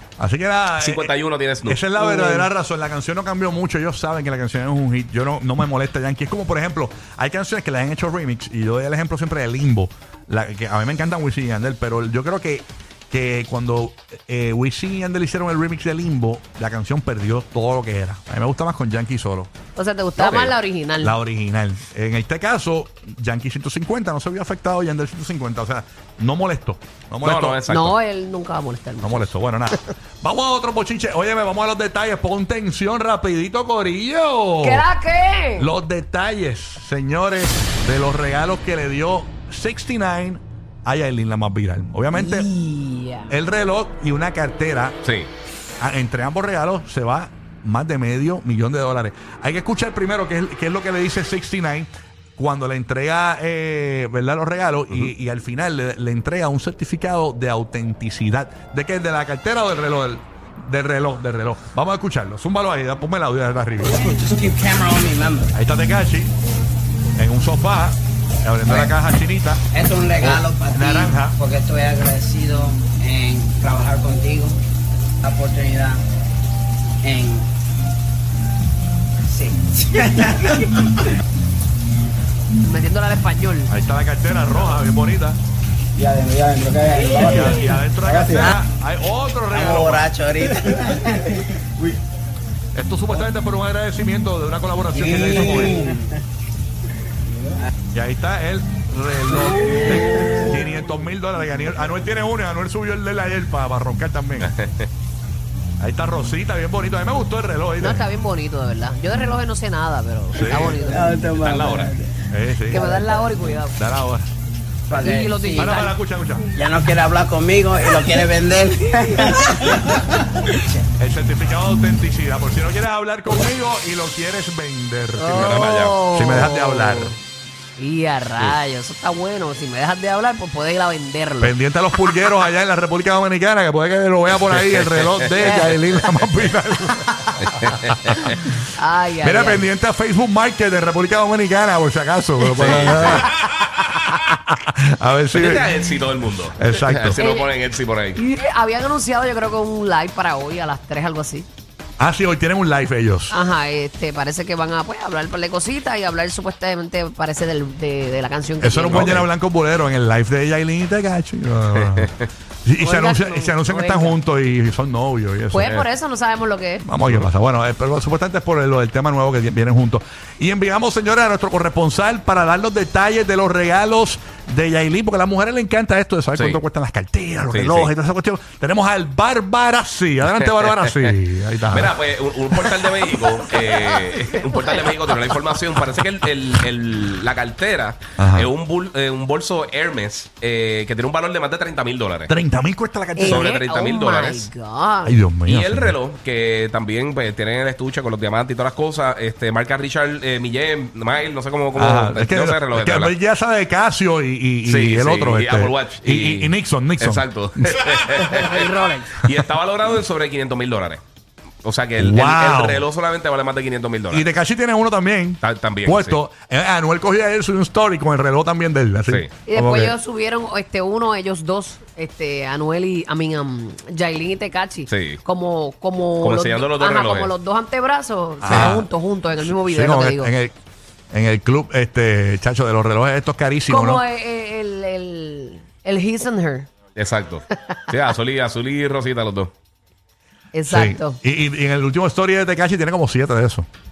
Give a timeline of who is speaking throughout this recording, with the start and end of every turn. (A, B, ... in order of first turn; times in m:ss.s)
0:00.2-0:19.5 A
0:00.8-0:01.8 B
0:02.0-0:02.5 C
0:19.8-0:21.2 C
0:20.2-0:20.5 B
0:21.0-0:27.6 A
0:27.2-0:28.0 B
0:27.7-0:29.3 C
0:29.0-0:34.9 A
0:34.6-0:35.7 C
0:35.6-0:42.5 A
0:42.1-0:43.4 C
0:43.3-0:45.0 A
0:45.0-0:45.3 B
0:45.8-1:04.0 A
1:03.8-1:05.5 D
1:05.6-1:06.4 A
1:07.2-1:09.6 A
1:08.6-1:09.0 D
1:09.7-1:14.6 D
1:10.2-1:11.4 A
1:15.2-1:16.0 D
1:17.0-1:17.5 D
1:19.3-1:20.8 D
1:22.6-1:23.7 C
1:23.7-1:25.4 A
1:26.0-1:28.6 D
1:27.0-1:30.1 A
1:29.5-1:31.2 D
1:32.7-1:35.8 A
1:34.9-1:36.1 D
1:37.9-1:44.5 A
1:39.7-1:40.0 D
1:44.4-1:44.9 B
1:45.8-1:48.1 A
1:47.8-1:51.2 C
1:50.3-1:50.8 A
1:50.5-1:52.2 D
1:51.4-1:51.9 B
1:52.3-1:52.9 A
1:52.7-1:53.8 C
1:52.8-1:53.2 D
1:53.8-1:54.3 A
1:54.9-1:55.7 D
1:54.9-1:56.0 C
1:55.6-1:56.5 A
1:56.5-2:00.1 D
2:01.0-2:07.2 A
2:05.2-2:07.2 C
2:05.3-2:06.0 B
2:07.8-2:11.6 C
2:11.4-2:17.1 A
2:14.5-2:15.6 B
2:15.4-2:15.8 C
2:17.5-2:18.3 B
2:18.8-2:19.6 C
2:19.2-2:25.7 A
2:22.6-2:23.2 B
2:23.1-2:23.7 C
2:25.3-2:28.2 B
2:26.6-2:27.2 A
2:27.2-2:27.5 C
2:28.2-2:31.5 C
2:32.0-2:33.4 A
2:33.3-2:39.2 C
2:38.6-2:42.1 A
2:38.9-2:39.3 B
2:41.8-2:42.1 B
2:42.6-2:45.9 A
2:42.8-2:44.2 C
2:45.5-2:46.8 C
2:46.8-3:02.0 A
2:57.5-2:57.9 B
3:00.6-3:00.9 B
3:01.7-3:12.3 B
3:04.2-3:04.8 C
3:08.2-3:08.5 A
3:12.3-3:13.5 A
3:13.2-3:15.2 C
3:13.2-3:14.5 B
3:15.0-3:16.0 A
3:15.5-3:23.2 B
3:21.8-3:28.2 A
3:24.6-3:28.7 B
3:28.2-3:29.2 C
3:29.2-3:31.0 B
3:31.6-3:34.3 B
3:32.0-3:32.9 A
3:34.1-3:40.0 A
3:35.4-3:36.2 B
3:39.5-3:50.3 C
3:44.9-3:45.2 B
3:46.2-3:47.3 B
3:48.4-3:48.8 B
3:48.4-3:48.9 A
3:49.4-3:50.5 A
3:51.1-3:54.0 A
3:53.7-3:56.7 C
3:57.0-3:59.5 B
4:00.5-4:01.2 C
4:00.7-4:03.7 A